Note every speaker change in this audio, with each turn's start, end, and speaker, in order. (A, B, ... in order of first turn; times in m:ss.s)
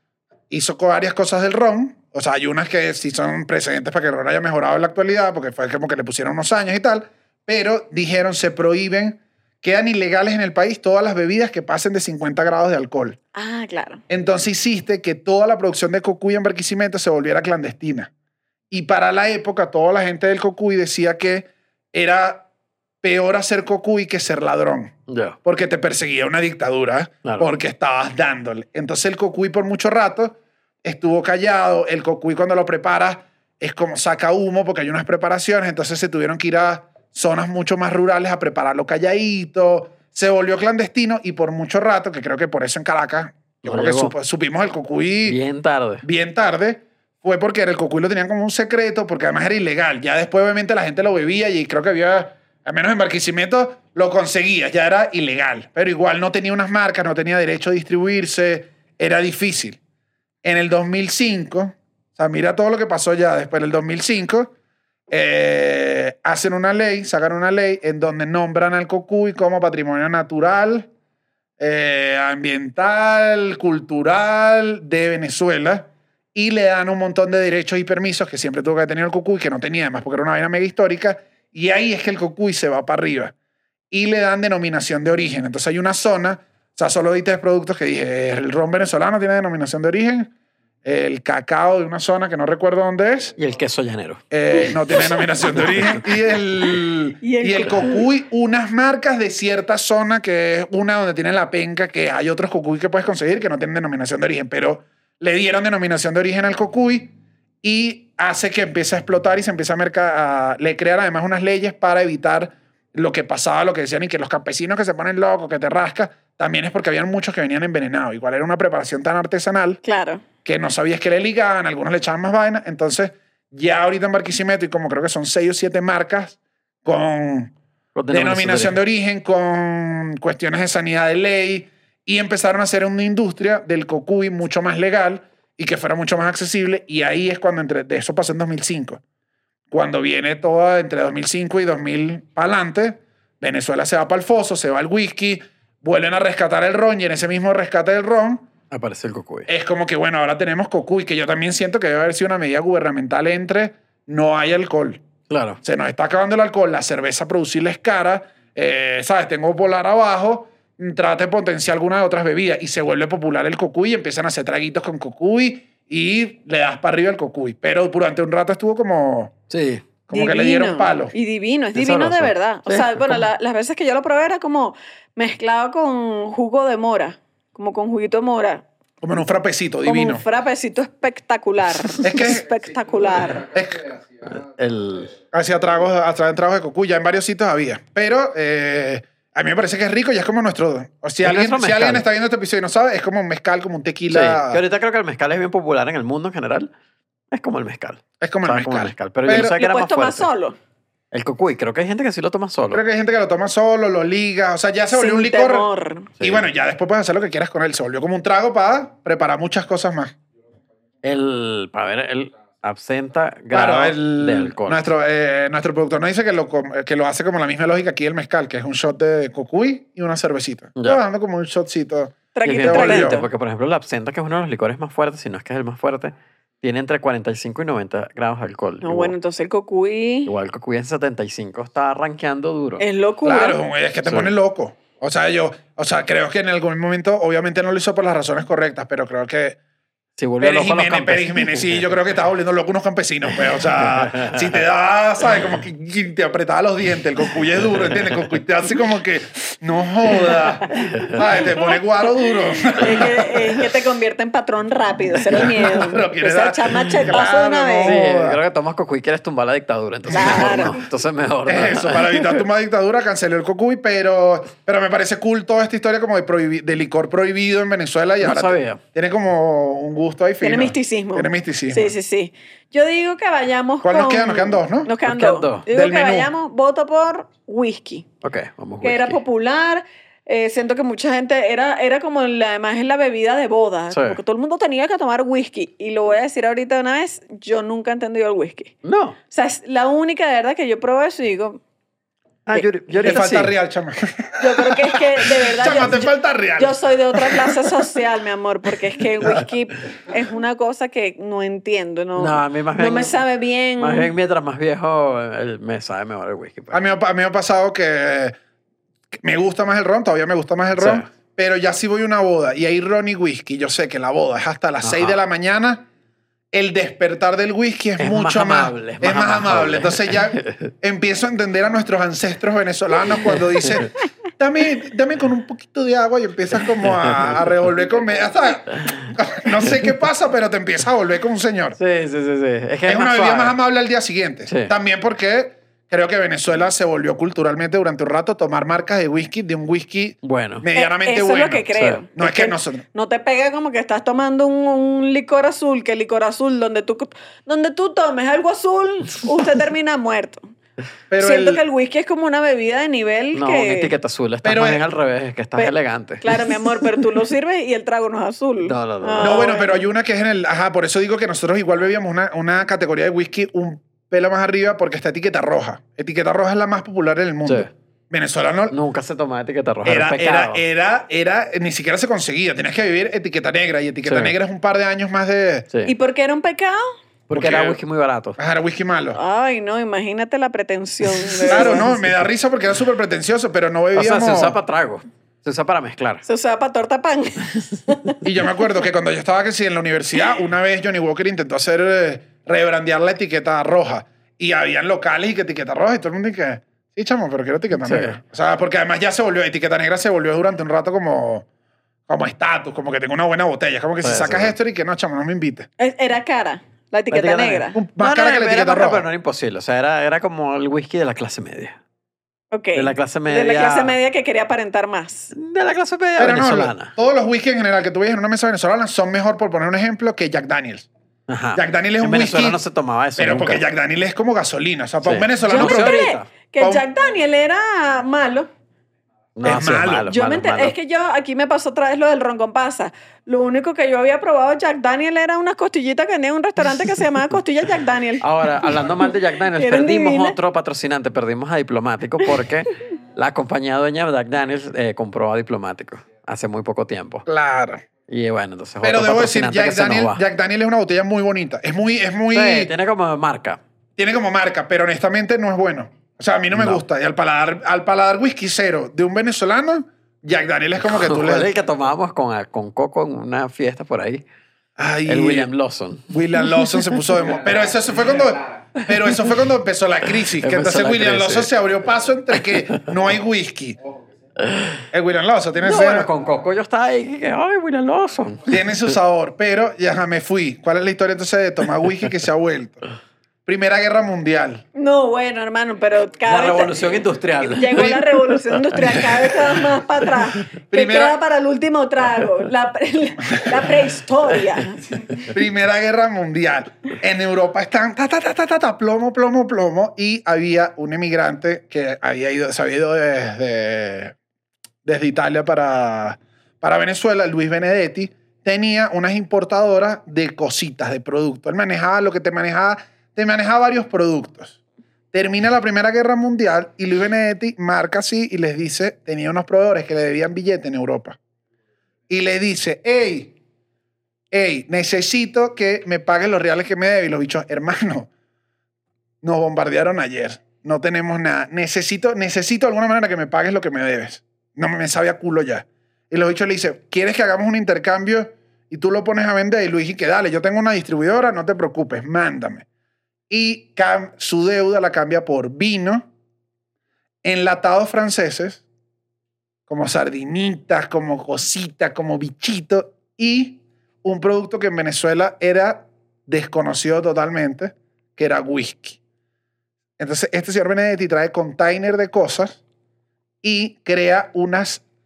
0:00.5-0:13.2 A
0:13.4-0:14.0 B
0:14.1-0:18.1 A
0:18.7-0:22.5 A
0:23.0-0:45.4 A
0:25.1-0:25.4 C
0:27.2-0:27.5 C
0:43.6-0:44.2 C
0:45.3-0:46.0 C
0:46.0-0:59.8 A
1:00.4-1:04.5 A
1:05.1-1:10.9 A
1:11.6-1:23.3 A
1:23.9-1:30.3 A
1:30.8-1:33.3 A
1:33.4-1:34.2 C
1:34.3-1:47.1 A
1:34.7-1:35.7 B
1:37.2-1:38.0 B
1:47.6-1:59.8 A
1:59.8-2:00.2 B
2:00.4-2:07.5 A
2:08.0-2:08.8 C
2:08.1-2:19.0 A
2:19.7-2:28.5 A
2:28.7-2:29.5 C
2:29.5-2:35.0 A
2:35.3-2:35.6 C
2:35.6-2:49.3 A
2:49.5-2:49.8 C
2:50.1-2:51.1 A
2:50.1-2:58.6 B
2:51.8-2:53.2 C
2:59.0-3:00.2 A
2:59.8-3:03.5 B
3:02.0-3:02.5 A
3:03.4-3:04.0 A
3:04.2-3:05.2 C
3:05.3-3:14.6 A
3:11.2-3:12.1 C
3:14.1-3:16.7 C
3:17.3-3:20.3 C
3:18.2-3:19.6 A
3:19.3-3:20.6 B
3:21.1-3:22.8 C
3:22.7-3:25.7 A
3:24.9-3:26.1 B
3:26.2-3:26.4 C
3:26.2-3:30.2 A
3:31.0-3:34.8 C
3:33.5-3:43.2 A
3:42.4-3:43.3 B
3:42.4-3:49.2 C
3:48.8-3:50.3 B
3:50.3-3:52.8 C
3:52.8-3:53.6 B
3:53.2-3:59.6 A
3:54.1-3:54.3 C
4:00.2-4:01.9 C
4:00.4-4:13.6 A
4:03.8-4:04.4 C
4:07.8-4:08.2 C
4:10.9-4:11.2 C
4:12.7-4:18.0 B
4:15.1-4:18.4 A
4:17.8-4:22.4 C
4:20.1-4:20.8 A
4:20.1-4:20.8 B
4:21.5-4:31.9 A
4:28.2-4:28.8 C
4:30.4-4:38.1 B
4:33.8-4:34.9 A
4:35.0-4:35.7 C
4:35.7-4:36.3 A
4:38.2-4:39.2 C
4:38.8-4:48.8 B
4:43.9-4:44.2 C
4:48.8-4:49.2 C
4:49.3-4:51.6 B
4:52.5-4:53.6 C
4:53.0-4:57.9 A
4:54.4-5:04.1 B
5:02.2-5:03.2 C
5:03.8-5:06.8 C
5:06.7-5:08.4 A
5:09.2-5:15.9 A
5:10.8-5:11.1 C
5:14.8-5:15.2 C
5:16.5-5:31.8 A
5:18.0-5:20.7 C
5:26.8-5:27.5 C
5:28.8-5:29.1 C
5:31.8-5:33.6 C
5:32.9-5:42.8 A
5:34.5-5:34.7 C
5:40.2-5:40.7 C
5:40.8-5:50.4 B
5:41.8-5:42.0 C
5:51.1-5:51.6 A
5:51.2-5:53.9 B
5:53.3-5:56.3 C
5:54.4-5:54.8 A
5:55.6-5:59.8 B
5:58.6-5:59.4 C
5:59.2-6:08.8 A
6:07.4-6:07.7 C
6:08.7-6:10.6 C
6:09.8-6:15.7 A
6:14.0-6:14.4 C
6:15.9-6:16.9 B
6:17.3-6:18.4 C
6:17.3-6:17.8 A
6:18.4-6:19.2 A
6:19.2-6:21.9 B
6:21.2-6:22.0 C
6:21.5-6:24.6 A
6:23.9-6:26.2 C
6:26.2-6:28.1 B
6:28.2-6:41.5 A
6:37.7-6:38.2 C
6:42.1-6:45.7 A
6:44.0-6:44.6 C
6:45.8-6:47.8 B
6:47.1-6:51.8 C
6:47.8-6:49.1 A
6:52.5-6:55.3 B
6:52.8-6:54.0 C
6:55.3-6:56.9 C
6:56.2-7:00.9 A
7:01.3-7:03.6 C
7:01.6-7:02.6 A
7:03.2-7:06.0 A
7:05.0-7:06.3 C
7:05.5-7:08.5 B
7:06.6-7:06.8 A
7:09.4-7:10.8 C
7:09.4-7:10.1 A
7:10.1-7:20.4 B
7:18.2-7:27.3 C
7:27.3-7:27.8 A
7:28.1-7:30.2 C
7:28.8-7:32.7 A
7:32.3-7:33.6 C
7:34.0-7:41.5 A
7:36.5-7:36.8 C
7:40.8-7:44.2 C
7:44.8-7:45.5 A
7:45.1-7:46.7 C
7:46.1-7:53.8 A
7:48.9-7:49.3 C
7:50.4-7:51.5 C
7:54.4-7:54.8 C
7:54.9-7:56.1 A
7:55.6-7:58.5 C
7:58.5-8:02.8 A
8:03.5-8:04.6 A
8:04.8-8:06.9 B
8:06.3-8:09.4 C
8:07.4-8:15.1 B
8:10.7-8:11.2 A
8:15.3-8:24.2 A
8:24.8-8:34.6 A
8:35.1-8:41.2 A
8:42.1-8:43.4 A
8:44.3-8:48.1 A
8:49.2-9:02.7 A
9:03.3-9:06.1 A
9:07.2-9:08.6 A
9:09.7-9:19.0 A
9:20.0-9:22.6 A
9:23.4-9:24.8 A